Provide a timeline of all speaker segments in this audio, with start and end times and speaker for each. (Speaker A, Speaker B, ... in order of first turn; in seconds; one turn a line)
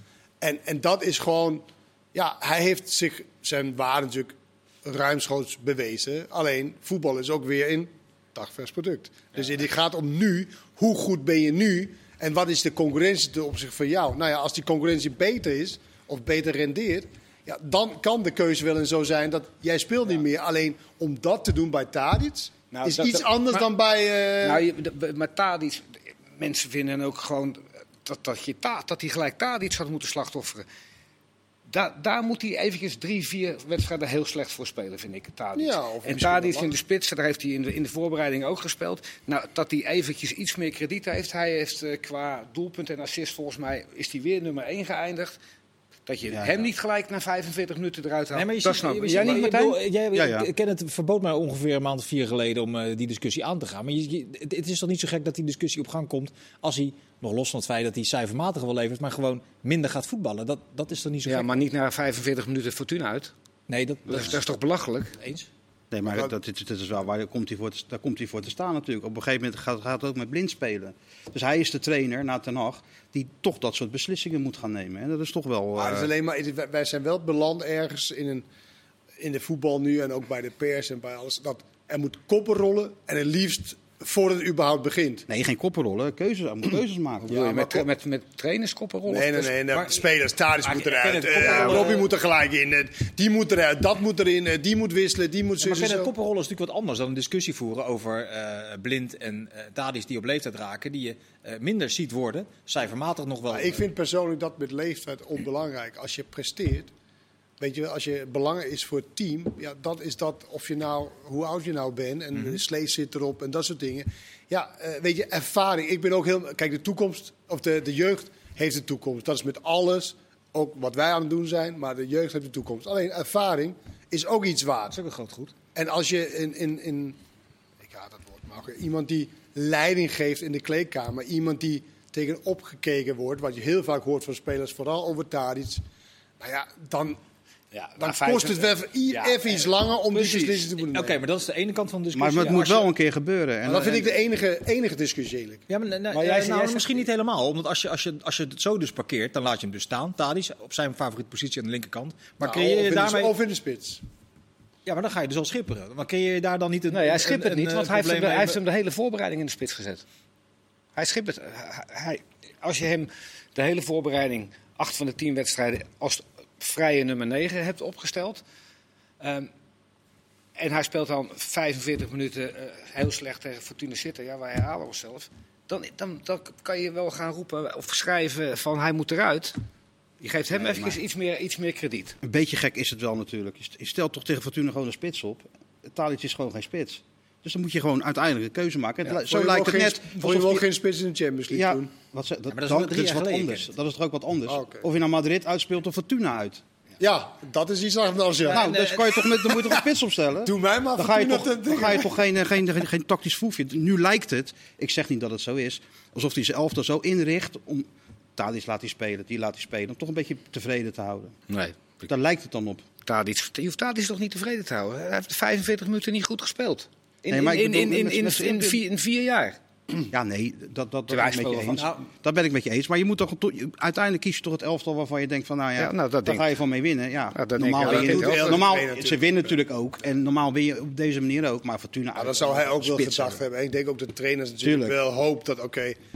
Speaker A: 0.4-24.6
Speaker B: 22.7-23.7
Speaker B: 24.4-30.6
Speaker B: 31.7-45.3
Speaker A: 35.5-36.7
Speaker B: 46.0-49.8
Speaker C: 46.3-46.6
Speaker D: 48.3-61.5
Speaker C: 49.1-49.5
Speaker C: 50.1-50.5
Speaker B: 61.2-63.3
Speaker D: 63.7-64.4
Speaker B: 64.0-65.2
Speaker C: 65.9-76.1
Speaker A: 75.8-78.4
Speaker A: 79.2-85.2
Speaker C: 85.3-87.8
Speaker B: 87.2-89.8
Speaker A: 89.1-96.1
Speaker D: 90.6-92.1
Speaker D: 95.6-103.8
Speaker A: 103.5-106.9
Speaker A: 107.6-125.0
Speaker D: 112.3-112.6
Speaker D: 124.9-125.5
Speaker A: 125.7-127.2
Speaker A: 127.8-135.8
Speaker A: 136.4-137.2
Speaker B: 137.7-140.8
Speaker A: 138.0-141.2
Speaker D: 140.9-142.9
Speaker C: 142.1-144.2
Speaker A: 143.6-145.6
Speaker D: 145.7-153.3
Speaker B: 146.1-147.1
Speaker A: 152.4-154.0
Speaker D: 154.8-158.6
Speaker B: 156.9-160.0
Speaker B: 160.9-168.4
Speaker B: 169.2-169.5
Speaker B: 170.6-179.6
Speaker B: 180.2-182.2
Speaker C: 180.5-181.0
Speaker C: 182.2-190.7
Speaker A: 189.0-191.9
Speaker C: 191.5-196.6
Speaker D: 192.5-193.7
Speaker A: 194.5-194.8
Speaker A: 197.0-198.8
Speaker D: 198.4-199.2
Speaker C: 198.5-211.4
Speaker A: 199.5-199.8
Speaker A: 200.4-202.1
Speaker B: 211.5-212.1
Speaker C: 212.1-212.8
Speaker B: 213.0-219.6
Speaker C: 217.3-218.8
Speaker C: 220.1-233.4
Speaker B: 221.1-221.8
Speaker D: 221.7-222.0
Speaker B: 225.8-226.5
Speaker B: 227.3-228.6
Speaker A: 227.8-229.2
Speaker A: 232.2-236.0
Speaker C: 234.6-235.0